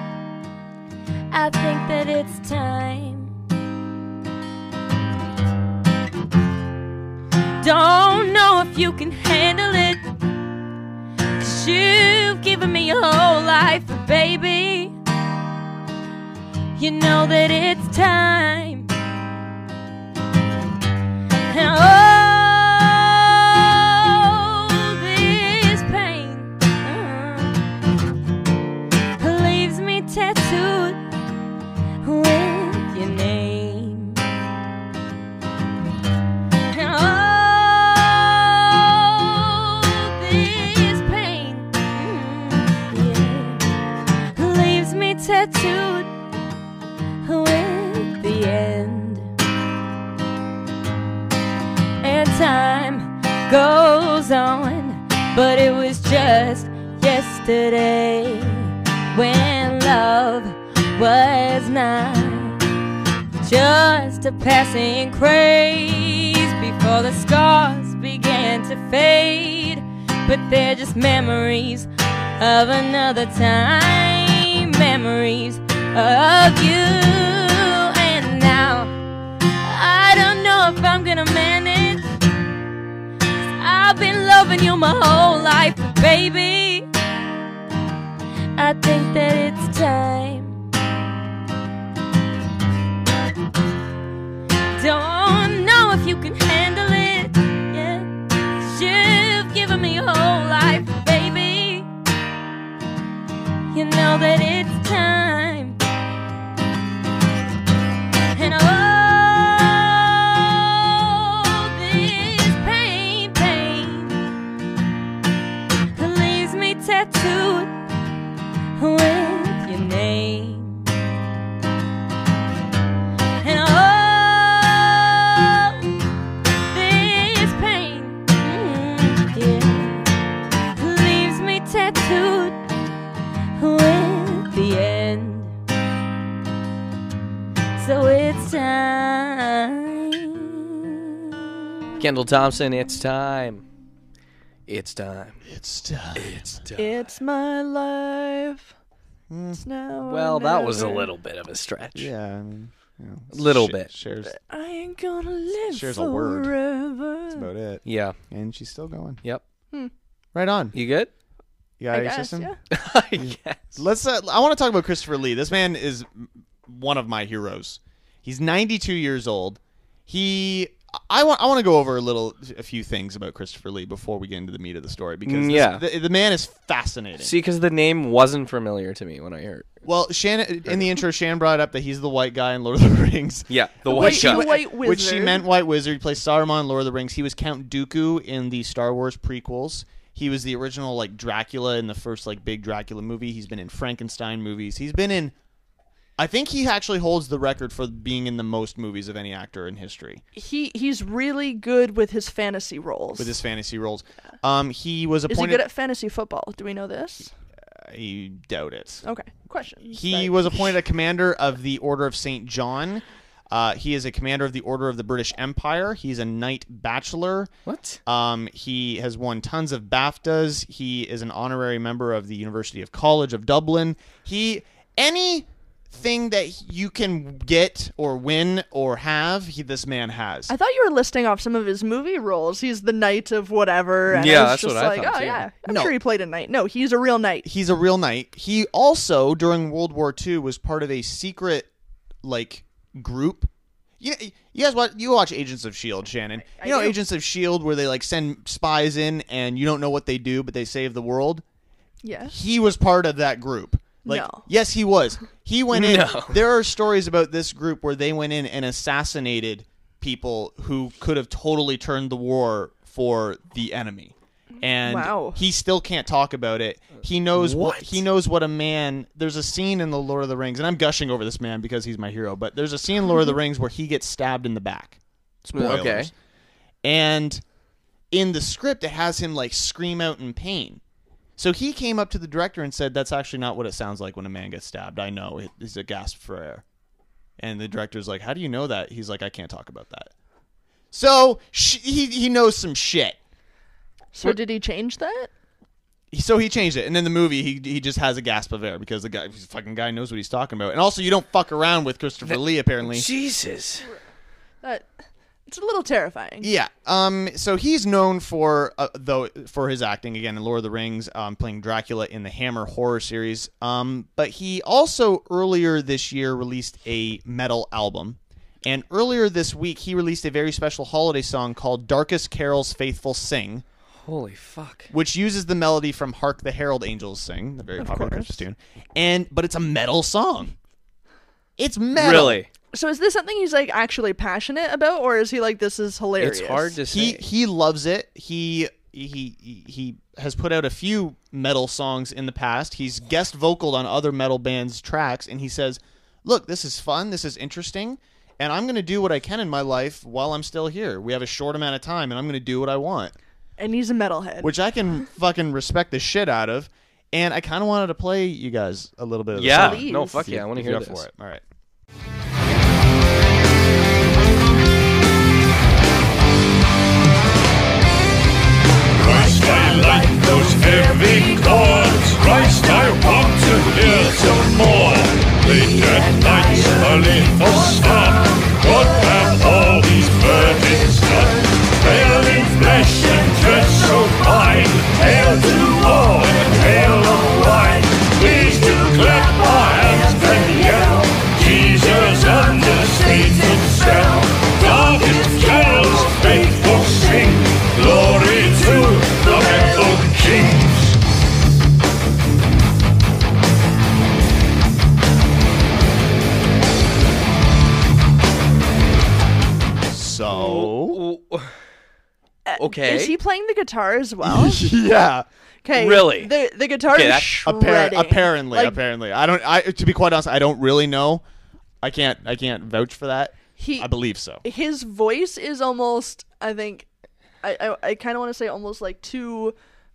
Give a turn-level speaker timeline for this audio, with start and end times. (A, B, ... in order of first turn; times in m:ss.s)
0:01.3-0:03.3 A
0:07.6-0:10.0 A
0:11.4-0:14.9 A
0:16.8-0:18.9 A
0:21.5-0:27.6 A
0:29.2-0:31.0 A
0:32.0-0:34.2 A
0:36.7-0:43.6 A
0:44.4-0:46.1 A
0:47.2-0:49.3 A
0:52.0-1:02.6 A
1:03.4-1:18.9 A
1:19.6-1:22.2 A
1:23.6-1:26.9 A
1:28.6-1:30.6 A
1:34.8-1:41.9 A
1:43.7-1:45.8 A
1:48.3-1:54.2 A
1:56.0-1:57.7 A
1:58.8-2:00.8 A
2:03.4-2:05.8 A
2:06.7-2:10.1 A
2:10.8-2:12.6 A
2:13.6-2:15.6 A
2:17.8-2:21.0 A
2:22.0-2:23.6 B
2:24.7-2:25.4 B
2:25.5-2:26.6 C
2:26.2-2:27.1 B
2:26.8-2:28.7 D
2:29.3-2:29.6 C
2:29.6-2:31.1 D
2:30.0-2:32.1 B
2:32.0-2:34.3 C
2:33.3-2:33.9 B
2:34.3-2:37.5 D
2:35.7-2:36.5 C
2:37.3-2:39.2 C
2:37.8-2:38.2 B
2:40.3-2:40.8 C
2:40.7-2:41.1 B
2:41.8-2:42.5 C
2:41.9-2:42.6 D
2:42.7-2:43.8 B
2:43.2-2:57.4 C
2:55.3-2:55.8 B
2:57.2-2:59.7 B
2:59.8-3:15.3 C
3:03.5-3:04.6 B
3:03.9-3:05.4 D
3:16.2-3:20.2 C
3:20.4-3:23.4 D
3:23.2-3:25.6 C
3:25.3-3:27.3 D
3:27.8-3:29.0 C
3:29.0-3:30.6 D
3:29.9-3:37.5 C
3:37.6-3:38.0 B
3:38.1-3:50.5 C
3:50.5-3:57.5 D
3:54.1-3:55.5 B
3:55.7-3:56.0 C
3:57.4-4:01.7 C
4:02.2-4:11.4 C
4:06.5-4:07.0 D
4:12.0-4:12.4 D
4:12.3-4:36.1 C
4:14.0-4:14.5 D
4:15.7-4:16.4 B
4:24.8-4:25.4 D
4:27.4-4:28.0 B
4:35.5-4:36.1 B
4:36.8-4:37.4 C
4:38.1-4:40.8 C
4:41.4-4:46.6 C
4:47.4-4:50.1 C
4:50.9-4:53.2 C
4:54.1-4:55.3 D
4:56.1-5:03.1 C
5:02.2-5:03.9 B
5:04.6-5:04.9 D
5:05.5-5:06.5 D
5:06.4-5:23.6 C
5:24.0-5:24.9 B
5:24.9-5:30.5 C
5:27.8-5:28.4 D
5:31.6-5:32.4 C
5:32.0-5:32.5 B
5:32.7-5:36.8 D
5:36.2-5:37.2 B
5:36.9-5:53.1 C
5:53.6-5:54.5 D
5:54.4-6:01.4 C
5:59.3-6:01.1 B
5:59.5-6:00.2 D
6:09.0-6:41.0 E
6:49.9-6:51.0 C
6:50.3-6:51.5 B
6:52.5-6:54.6 D
6:52.6-6:53.2 B
6:54.2-6:55.3 C
6:55.6-6:58.8 D
6:55.8-6:56.3 B
6:56.9-6:57.4 B
6:57.4-7:01.2 C
7:01.8-7:04.4 C
7:03.6-7:03.9 D
7:04.4-7:06.9 D
7:07.4-7:09.6 D